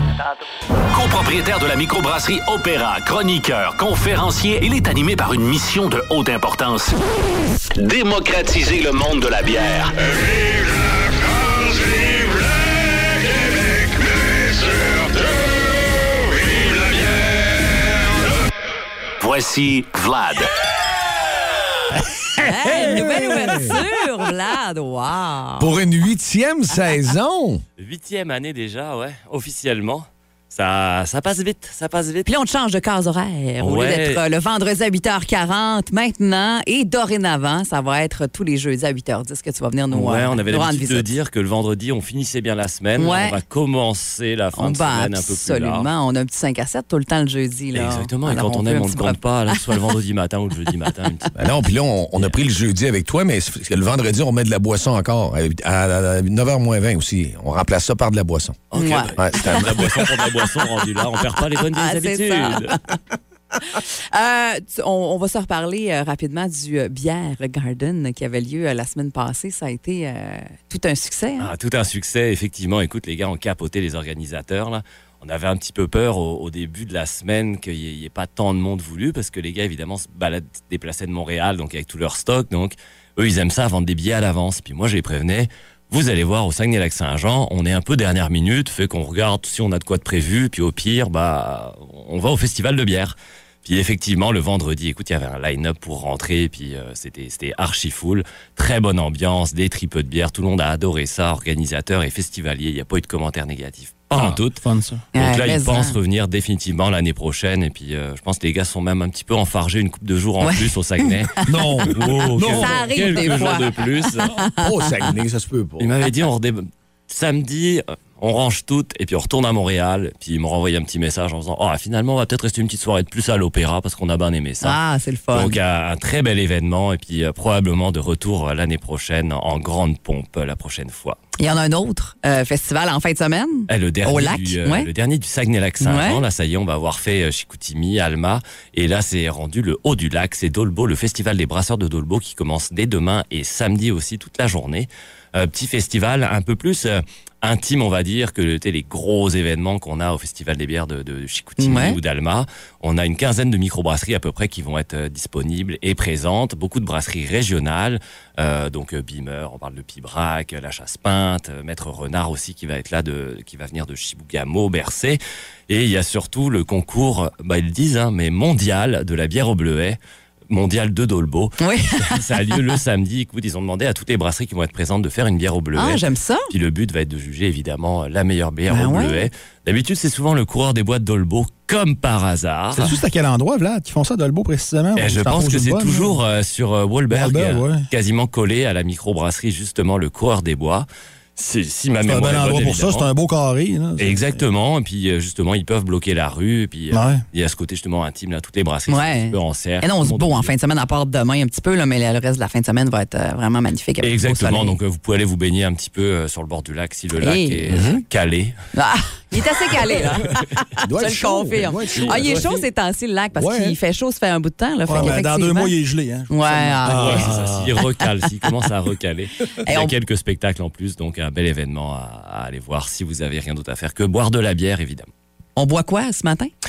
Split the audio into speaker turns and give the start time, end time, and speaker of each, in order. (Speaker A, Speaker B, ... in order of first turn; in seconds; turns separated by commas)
Speaker A: 0.9-7.0, Speaker A: 7.8-9.9, Speaker A: 19.2-20.5, Speaker B: 22.4-25.7, Speaker C: 22.4-23.7, Speaker D: 22.8-23.8, Speaker D: 25.6-27.6, Speaker E: 27.8-32.3, Speaker B: 32.2-41.1, Speaker E: 33.6-34.2, Speaker E: 39.9-45.9, Speaker B: 43.0-43.4, Speaker B: 44.5-49.8, Speaker E: 47.7-51.3, Speaker D: 51.3-60.2, Speaker E: 58.7-62.8, Speaker B: 58.7-59.8, Speaker B: 61.3-63.0, Speaker B: 63.6-71.5, Speaker E: 71.4-104.6, Speaker C: 104.1-105.0, Speaker B: 105.1-106.0, Speaker E: 105.1-114.3, Speaker B: 110.4-110.7, Speaker B: 111.3-114.7, Speaker C: 111.5-113.5, Speaker D: 114.5-115.9, Speaker E: 115.8-124.8, Speaker B: 124.6-125.6, Speaker E: 125.3-131.2, Speaker B: 131.4-134.9, Speaker E: 133.7-170.0, Speaker B: 135.8-136.2, Speaker B: 151.6-152.0, Speaker E: 170.5-183.0, Speaker B: 171.6-172.6, Speaker B: 175.7-176.5, Speaker B: 178.7-179.3, Speaker C: 182.7-186.2, Speaker E: 184.9-193.1, Speaker C: 187.1-187.9, Speaker C: 192.0-194.4, Speaker E: 194.0-200.5, Speaker C: 196.9-197.2, Speaker B: 198.9-204.8, Speaker E: 204.0-208.5, Speaker B: 207.2-207.7, Speaker D: 207.7-208.0, Speaker B: 208.7-215.7, Speaker D: 210.8-212.4, Speaker E: 211.9-212.6, Speaker D: 213.3-213.8, Speaker C: 214.9-217.7, Speaker B: 216.3-217.4, Speaker E: 216.8-225.1, Speaker B: 219.6-219.9, Speaker B: 225.6-226.5